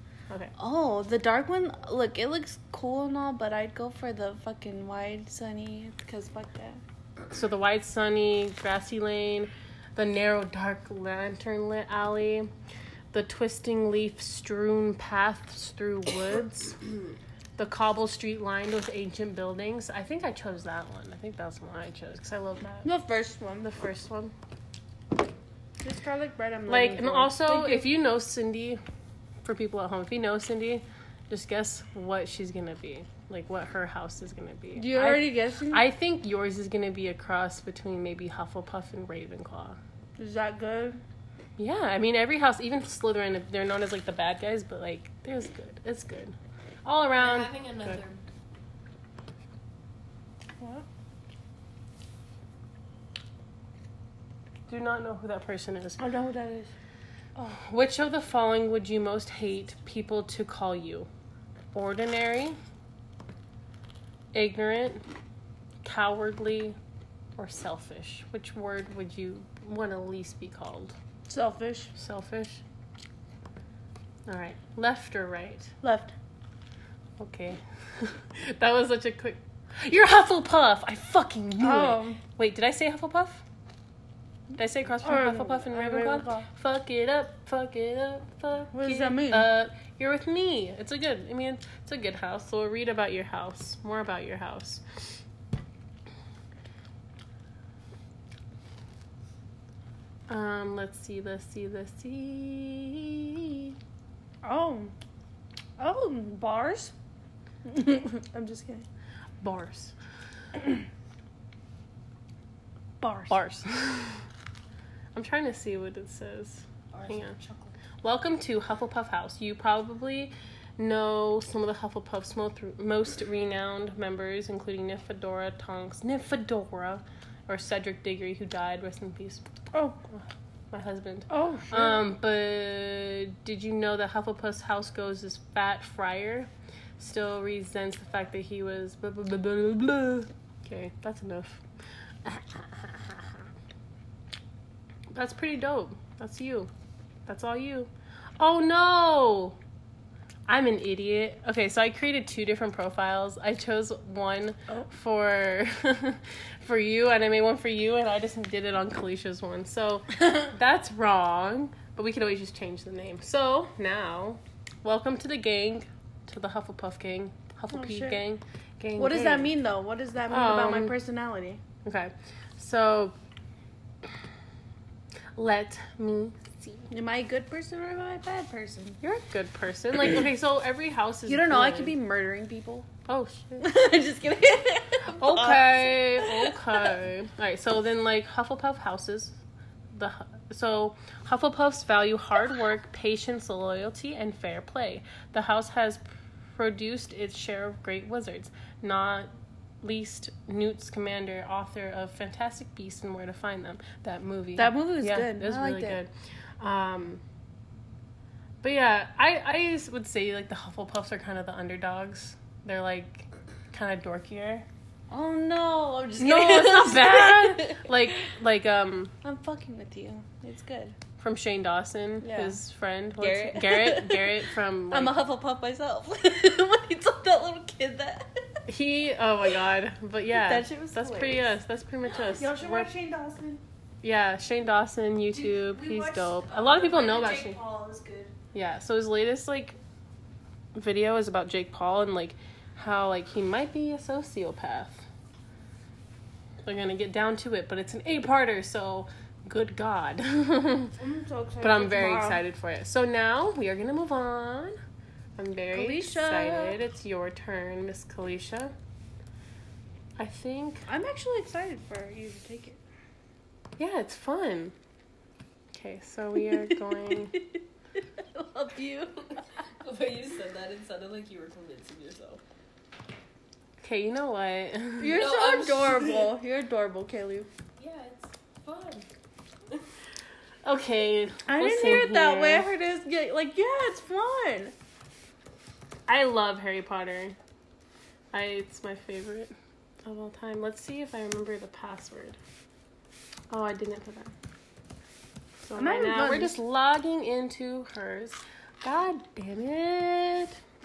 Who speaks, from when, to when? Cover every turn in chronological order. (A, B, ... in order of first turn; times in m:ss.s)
0:00.6-0:06.8 A
0:07.3-0:12.5 B
0:13.1-0:16.8 B
0:17.6-0:22.9 B
0:22.8-0:23.7 A
0:23.6-0:24.4 B
0:25.8-0:27.9 A
0:26.7-0:28.8 B
0:29.4-0:39.8 B
0:34.7-0:35.8 A
0:40.2-0:41.0 A
0:41.6-0:48.0 B
0:47.2-0:48.2 C
0:50.6-0:50.9 A
0:54.7-0:56.0 B
0:56.0-0:56.7 A
0:57.4-1:01.1 B
1:01.7-1:02.6 B
1:04.3-1:05.0 B
1:05.8-1:06.8 B
1:07.4-1:11.0 B
1:11.3-1:11.9 A
1:12.0-1:12.6 B
1:14.3-1:15.8 B
1:15.8-1:16.1 A
1:17.2-1:23.4 B
1:21.6-1:22.2 A
1:24.6-1:35.2 B
1:25.0-1:26.5 A
1:28.7-1:29.5 A
1:40.3-1:43.7 B
1:44.4-1:44.9 A
1:45.8-1:46.9 A
1:47.6-1:48.9 A
1:49.4-1:50.0 B
1:53.0-1:53.4 A
1:53.3-1:54.2 B
1:55.1-1:57.4 B
1:56.9-1:57.8 C
1:58.0-2:09.5 B
2:09.7-2:10.0 A
2:10.1-2:23.4 B
2:11.3-2:11.8 A
2:25.1-2:26.7 B
2:27.3-2:29.6 B
2:30.5-2:49.5 B
2:47.7-2:48.2 A
2:49.0-2:51.6 A
2:50.3-2:51.0 B
2:51.8-2:53.2 B
2:55.3-2:56.4 B
2:56.9-2:59.0 A
2:59.0-3:01.9 B
3:01.3-3:02.9 A
3:03.1-3:03.7 B
3:03.6-3:06.9 A
3:05.1-3:09.4 B
3:09.9-3:27.2 B
3:24.6-3:26.0 A
3:28.6-3:34.7 B
3:35.1-3:38.0 A
3:36.2-3:39.1 B
3:39.2-3:41.0 A
3:41.2-3:45.2 B
3:42.2-3:42.6 A
3:43.2-3:44.4 A
3:44.9-3:48.3 A
3:48.7-3:52.9 B
3:50.3-3:51.5 A
3:52.3-3:53.6 A
3:54.0-3:57.6 B
3:55.3-3:58.3 A
3:58.5-3:59.8 B
4:00.8-4:05.1 B
4:06.6-4:10.9 B
4:11.0-4:12.4 A
4:11.6-4:14.8 B
4:15.4-4:18.8 B
4:15.7-4:16.8 A
4:20.2-4:20.8 B
4:20.9-4:22.8 A
4:23.8-4:24.8 B
4:25.7-4:27.3 B
4:26.6-4:29.6 A
4:29.8-4:32.4 C
4:33.8-4:35.2 B
4:35.0-4:37.5 A
4:35.2-4:36.3 C
4:37.8-4:39.1 C
4:40.6-4:42.7 B
4:41.5-4:44.7 A
4:46.1-4:47.4 B
4:48.3-4:49.5 B
4:50.0-4:52.4 B
4:53.5-4:54.3 B
4:55.6-5:00.6 B
4:55.8-4:56.6 A